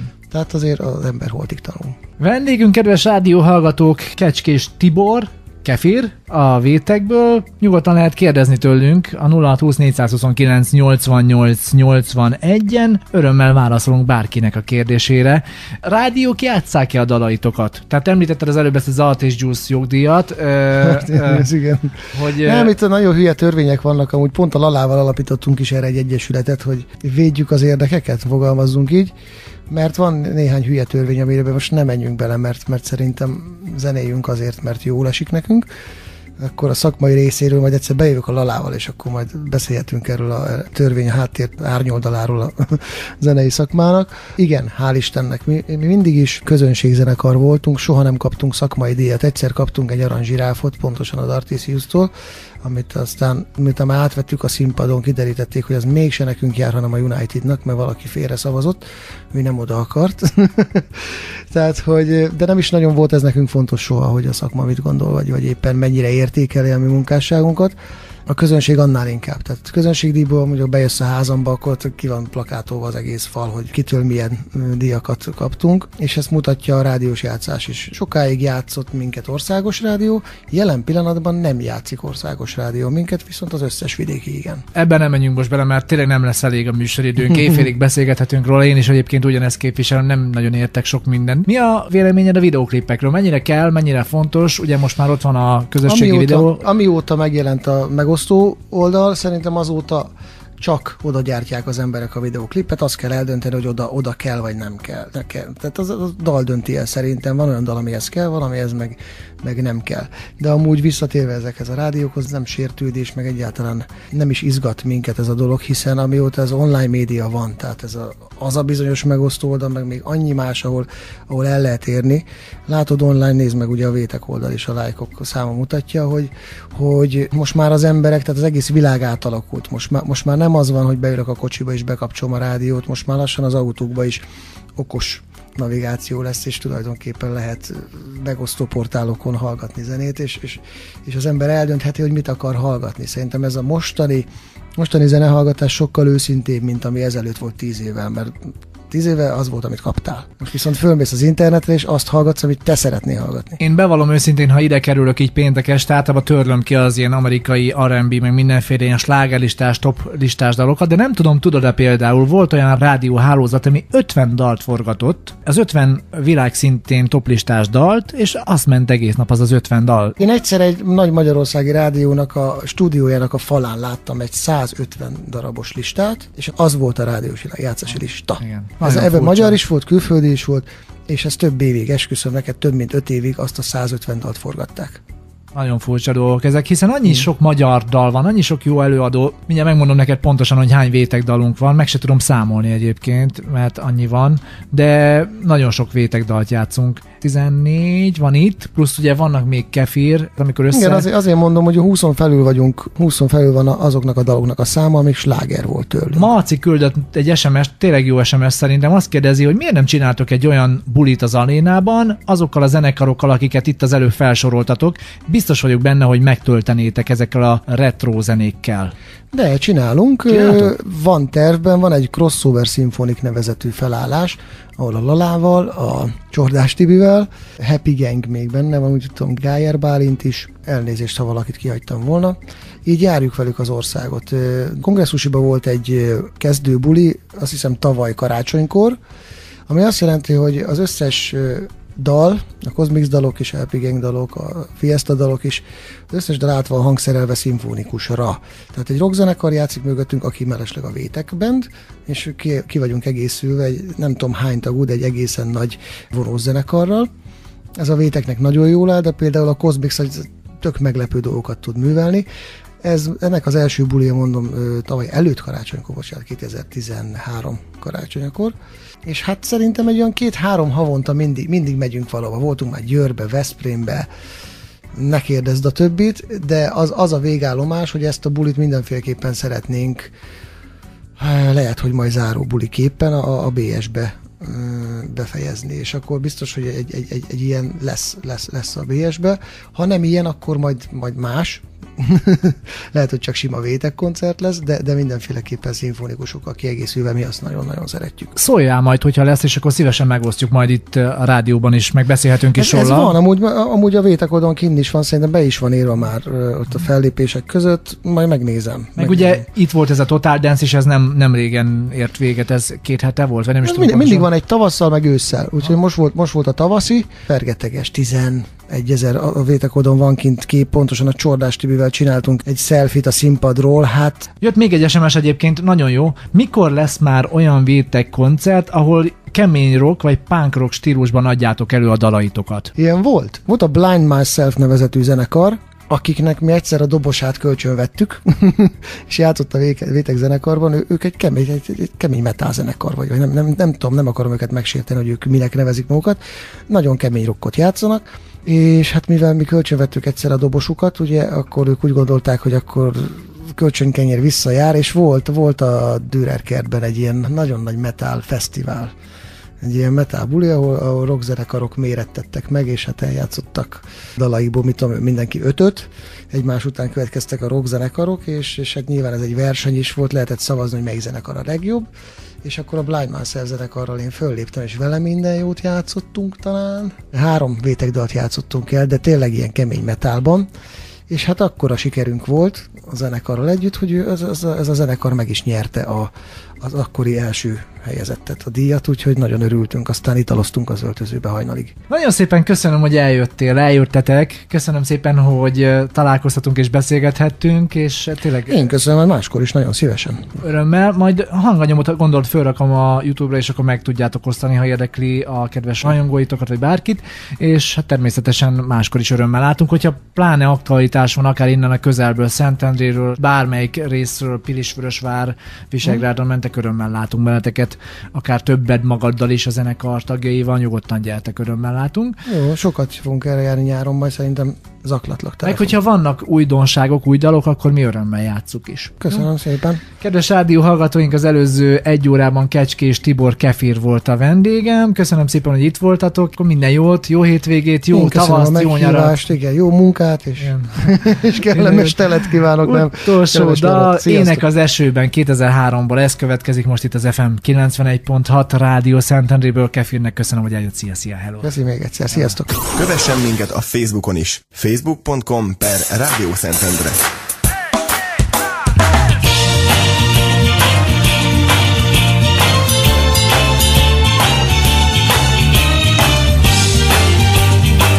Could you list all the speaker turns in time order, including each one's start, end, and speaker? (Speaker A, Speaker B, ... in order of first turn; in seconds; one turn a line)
Speaker A: 0.3-2.0
Speaker B: 2.2-21.5
Speaker A: 20.8-29.1
Speaker B: 22.1-22.7
Speaker A: 29.7-35.7
Speaker A: 36.4-52.1
Speaker A: 52.6-58.8
Speaker A: 59.3-67.8
Speaker A: 68.3-84.6
Speaker B: 84.8-96.7
Speaker A: 95.8-134.2
Speaker A: 134.8-153.6
Speaker B: 153.6-170.2
Speaker A: 170.2-185.0
Speaker B: 178.4-179.6
Speaker B: 185.5-201.1
Speaker A: 200.7-206.3
Speaker B: 206.1-218.9
Speaker A: 219.3-239.0
Speaker B: 220.3-220.7
Speaker A: 239.7-257.1
Speaker A: 257.8-262.3
Speaker A: 262.8-268.6
Speaker A: 269.1-274.1
Speaker A: 274.9-280.1
Speaker A: 281.2-298.4
Speaker B: 298.4-303.1
Speaker A: 302.6-309.4
Speaker B: 309.0-314.3
Speaker A: 313.6-324.3
Speaker B: 324.4-332.7
Speaker A: 332.8-358.9
Speaker A: 359.6-371.9
Speaker A: 372.4-380.5
Speaker A: 381.1-391.8
Speaker B: 391.9-398.6
Speaker A: 398.5-400.4
Speaker B: 400.4-422.2
Speaker A: 422.3-425.8
Speaker B: 425.4-429.2
Speaker A: 429.0-429.8
Speaker B: 430.0-439.3
Speaker A: 437.9-444.4
Speaker B: 440.4-440.9
Speaker B: 441.5-442.0
Speaker B: 442.6-451.5
Speaker A: 451.4-452.7
Speaker C: 452.7-457.0